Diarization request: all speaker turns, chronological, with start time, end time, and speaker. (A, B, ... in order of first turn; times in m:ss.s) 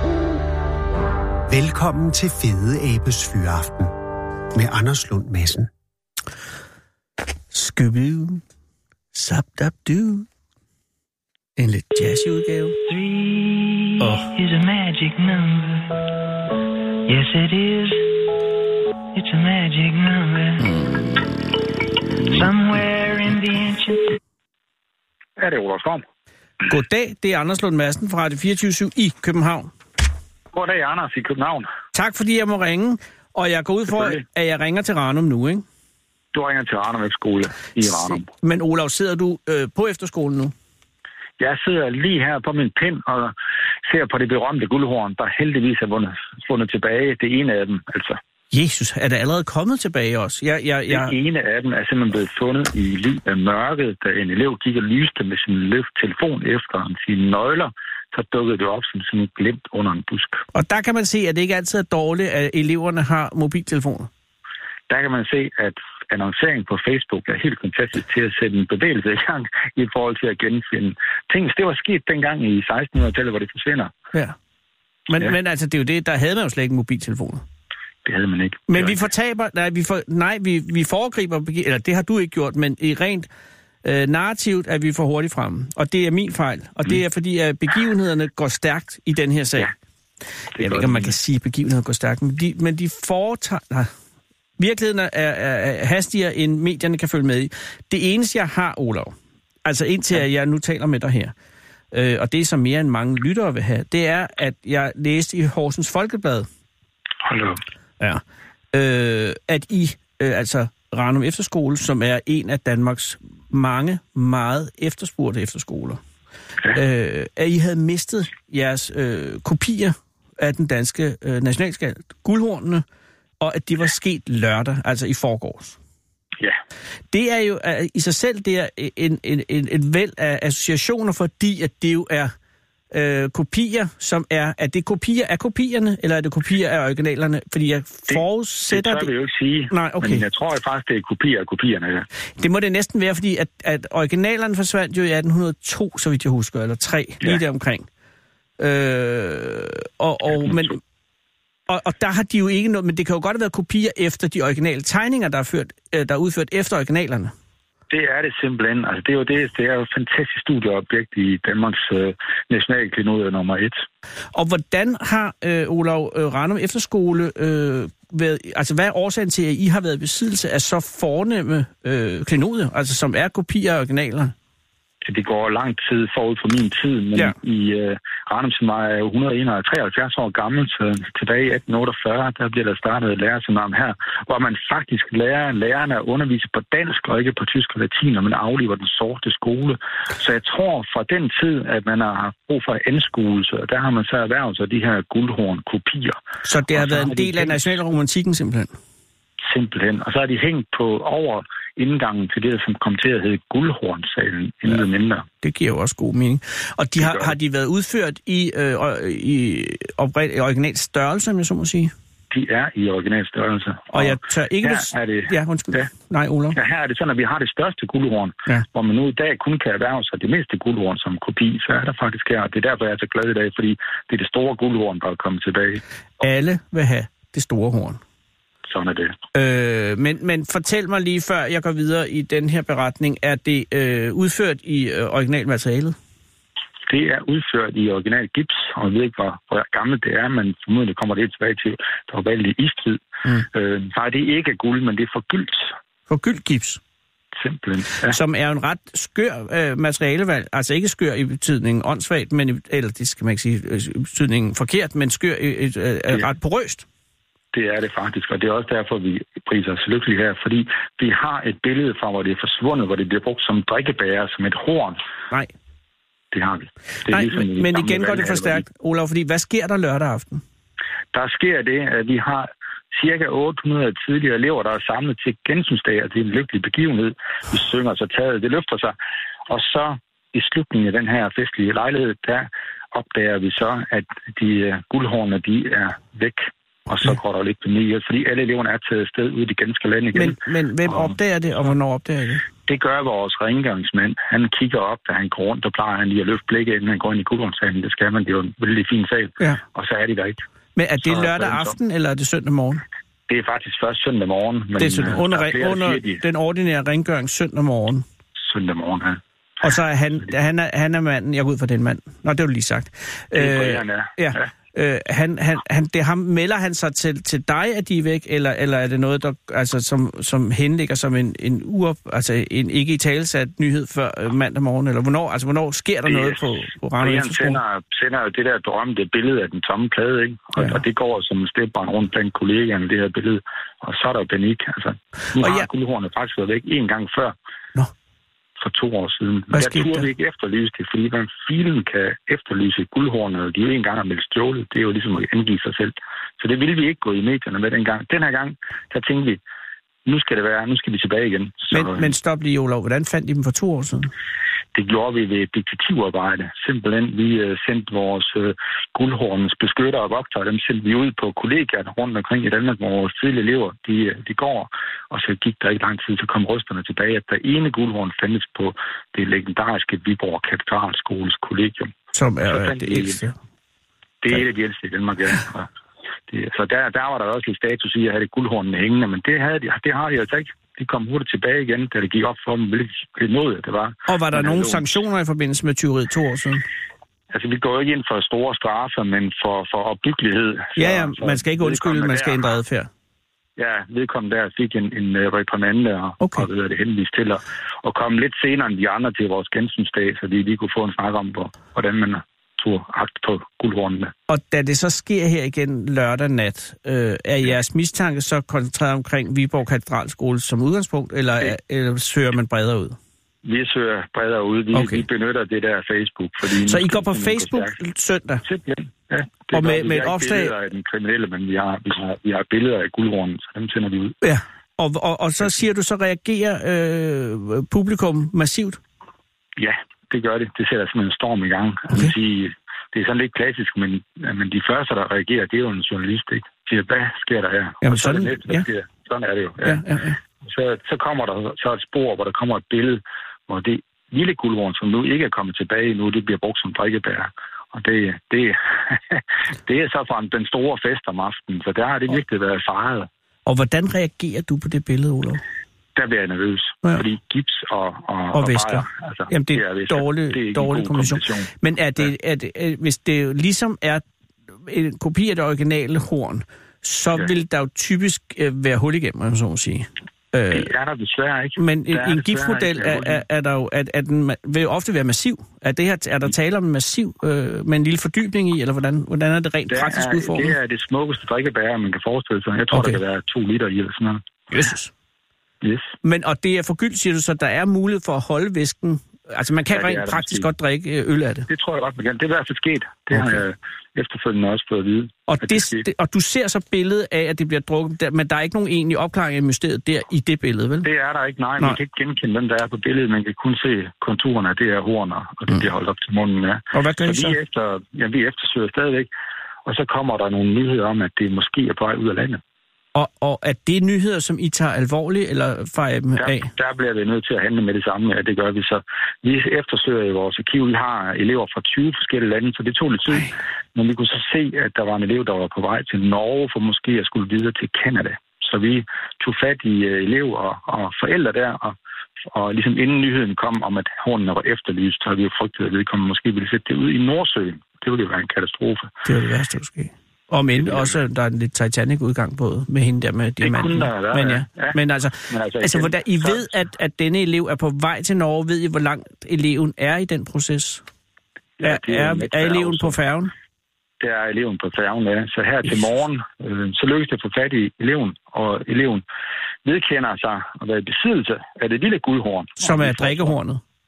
0:01.5-0:03.9 A
0:04.5-0:05.7 A
0:07.5-0:08.4 B
0:09.1-0:10.2 B
0:11.6-0:12.8 B
0:12.9-0:16.0 C
0:14.0-0:14.3 B
0:17.1-0:18.0 C
0:19.1-0:20.6 C
0:20.6-0:21.2 B
0:22.3-0:24.2 C
0:25.4-0:26.0 D
0:26.7-0:29.7 B
0:30.5-0:31.7 D
0:31.9-0:35.6 B
0:33.9-0:34.2 D
0:36.3-0:38.3 D
0:37.8-0:40.5 B
0:41.4-0:43.3 D
0:43.8-0:48.2 D
0:48.5-0:51.1 B
0:50.9-1:00.4 D
1:00.5-1:04.1 B
1:04.9-1:13.9 D
1:15.1-1:17.4 B
1:18.0-1:19.0 D
1:18.7-1:23.3 B
1:23.8-1:29.7 B
1:30.6-1:31.1 D
1:30.6-1:33.9 B
1:34.6-1:39.1 B
1:39.6-1:41.3 B
1:41.9-1:46.5 B
1:47.2-1:47.6 D
1:48.7-1:56.0 B
1:56.7-2:02.8 B
2:03.4-2:05.8 B
2:07.1-2:12.3 B
2:12.9-2:19.1 B
2:18.1-2:22.0 D
2:19.7-2:20.2 B
2:22.4-2:27.8 B
2:28.6-2:30.8 B
2:30.3-2:30.8 D
2:31.7-2:37.3 B
2:37.9-2:43.8 D
2:44.3-2:54.3 B
2:55.0-3:16.2 D
3:16.4-3:18.7 B
3:16.7-3:17.7 D
3:19.5-3:25.3 D
3:25.4-3:31.9 B
3:27.0-3:27.3 D
3:32.3-3:35.9 D
3:33.9-3:36.6 B
3:36.5-3:45.8 D
3:46.2-3:48.0 B
3:48.7-3:49.1 D
3:49.3-3:56.0 B
3:56.9-4:05.7 D
4:06.1-4:06.8 B
4:07.4-4:08.2 D
4:08.1-4:16.8 B
4:17.5-4:25.0 D
4:26.3-4:28.6 D
4:27.1-4:30.4 B
4:31.1-4:38.9 D
4:39.5-4:50.4 D
4:50.1-4:52.4 B
4:50.9-4:51.1 D
4:52.6-5:00.4 D
5:00.8-5:02.8 B
5:01.0-5:01.7 D
5:03.3-5:06.2 D
5:04.8-5:08.0 B
5:08.4-5:09.7 D
5:09.6-5:27.6 B
5:13.3-5:14.5 D
5:26.1-5:26.4 D
5:27.0-5:37.3 D
5:35.4-5:35.7 B
5:38.6-5:49.4 D
5:39.5-5:40.1 B
5:50.0-5:52.1 D
5:51.7-5:54.1 B
5:54.7-6:11.9 D
6:12.1-6:13.3 B
6:12.5-6:13.2 D
6:14.2-6:15.7 D
6:16.3-6:24.8 D
6:24.1-6:26.6 B
6:27.3-6:32.5 D
6:30.8-6:32.9 B
6:33.6-6:44.1 D
6:36.2-6:36.5 B
6:44.3-6:53.0 B
6:53.4-6:57.7 D
6:54.7-6:55.0 B
6:56.6-6:58.4 B
6:58.4-7:04.2 D
6:59.5-7:00.5 B
7:04.2-7:08.8 B
7:09.6-7:19.8 D
7:17.8-7:18.6 B
7:19.6-7:20.2 B
7:20.4-7:33.1 D
7:33.4-7:35.4 B
7:35.9-7:42.1 D
7:38.3-7:44.0 B
7:44.6-7:50.7 B
7:50.5-7:53.2 D
7:51.6-8:00.5 B
7:59.7-8:04.2 D
8:02.7-8:03.0 B
8:04.5-8:04.9 B
8:05.6-8:05.9 D
8:06.0-8:11.5 B
8:09.7-8:10.5 D
8:11.5-8:15.8 D
8:15.3-8:20.9 B
8:20.8-8:29.1 D
8:26.7-8:27.4 B
8:29.6-8:32.4 D
8:32.9-8:36.5 B
8:36.2-8:51.8 D
8:52.3-8:58.9 D
8:59.0-9:10.8 B
9:00.6-9:01.0 D
9:03.4-9:04.8 D
9:05.3-9:06.5 D
9:11.6-9:13.0 D
9:11.6-9:13.3 B
9:14.0-9:19.0 D
9:19.6-9:23.3 D
9:22.6-9:23.6 B